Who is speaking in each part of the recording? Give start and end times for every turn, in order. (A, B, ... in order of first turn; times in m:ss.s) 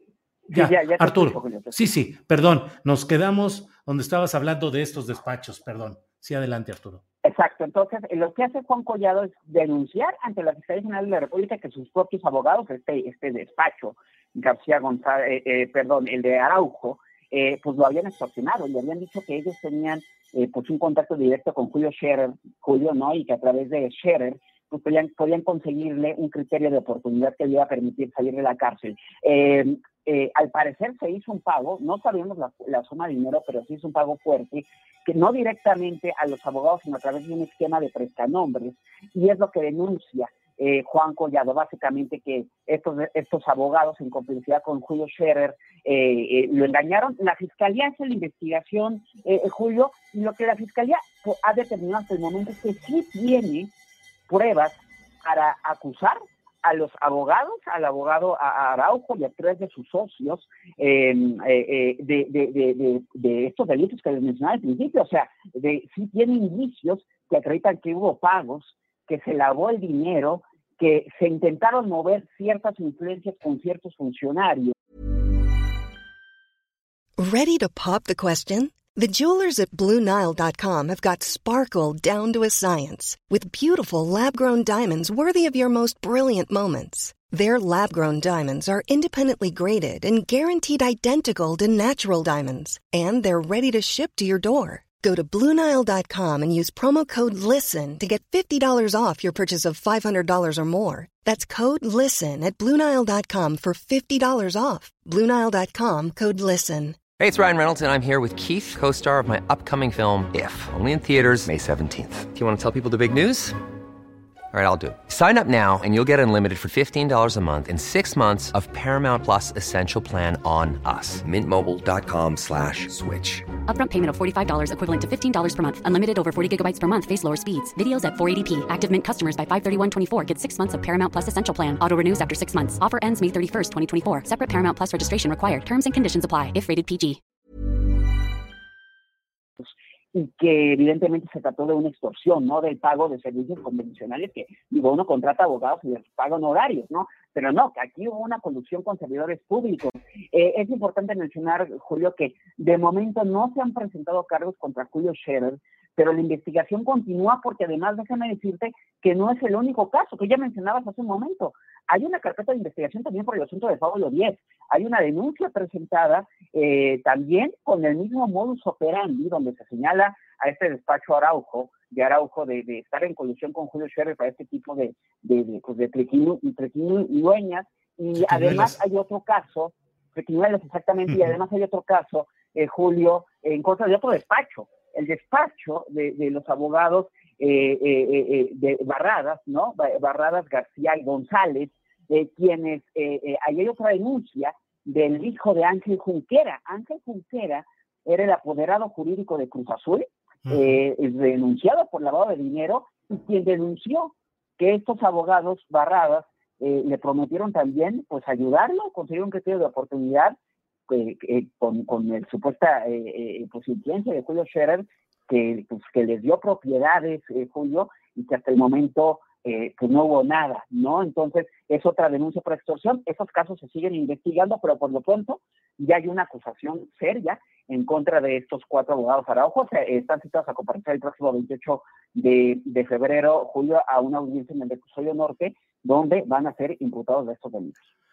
0:00.5-0:01.9 A
0:00.5-0:07.0 B
0:07.2-0:53.7 A
0:54.3-1:14.7 A
1:17.2-1:47.0 C
1:47.2-1:53.6 D
1:54.5-2:03.4 D
2:03.7-2:17.2 E
2:19.6-3:30.4 A
2:58.2-2:58.8 B
3:30.9-3:57.9 A